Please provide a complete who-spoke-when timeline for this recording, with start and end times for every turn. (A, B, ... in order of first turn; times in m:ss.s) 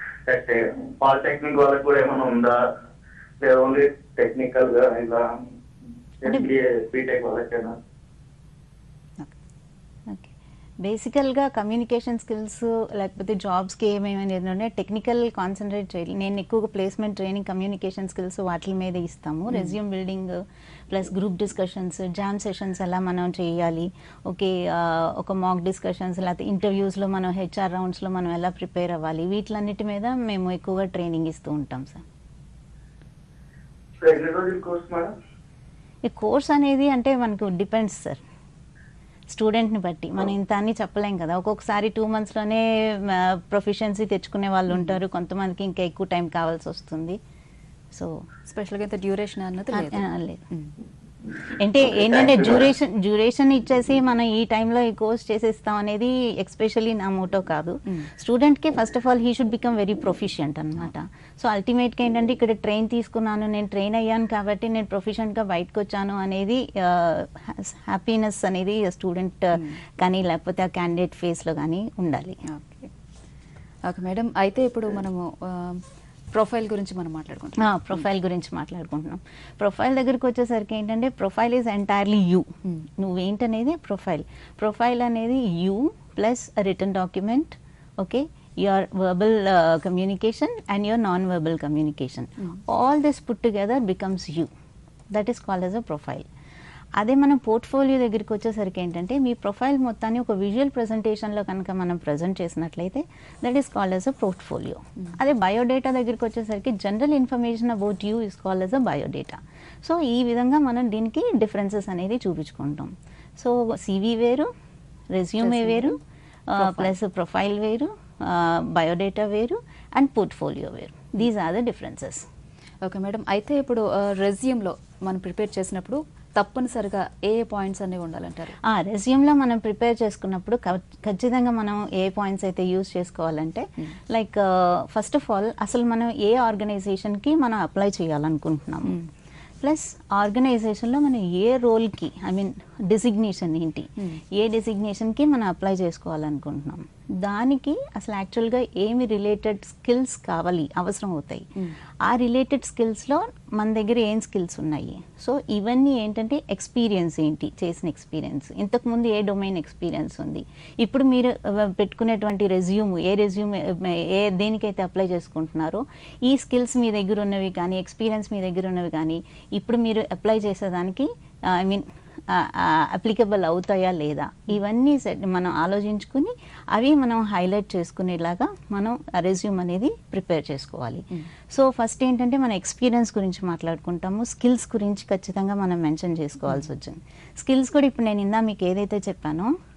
0:00.3-0:02.6 A
0:03.4-0:05.2 A
0:06.2-0:07.8 A
0:06.2-0:06.5 B
0:10.1-0:32.0 B
0:34.0-0:35.1 A
0:36.0-0:38.2 B
0:39.3-0:47.2 B
0:47.9-0:48.2 B
0:48.5-0:50.7 C
0:49.7-0:50.4 B
0:51.5-1:12.4 B
0:52.0-0:52.6 A
1:12.5-1:12.9 C
1:13.9-1:18.0 C
1:17.6-1:34.5 B
1:35.1-1:36.3 B
1:37.0-1:54.5 B
1:55.1-2:02.3 B
1:55.4-1:56.0 C
1:56.6-1:56.9 C
2:02.8-2:08.6 C
2:08.6-2:19.0 B
2:19.6-2:31.5 B
2:32.0-3:09.5 B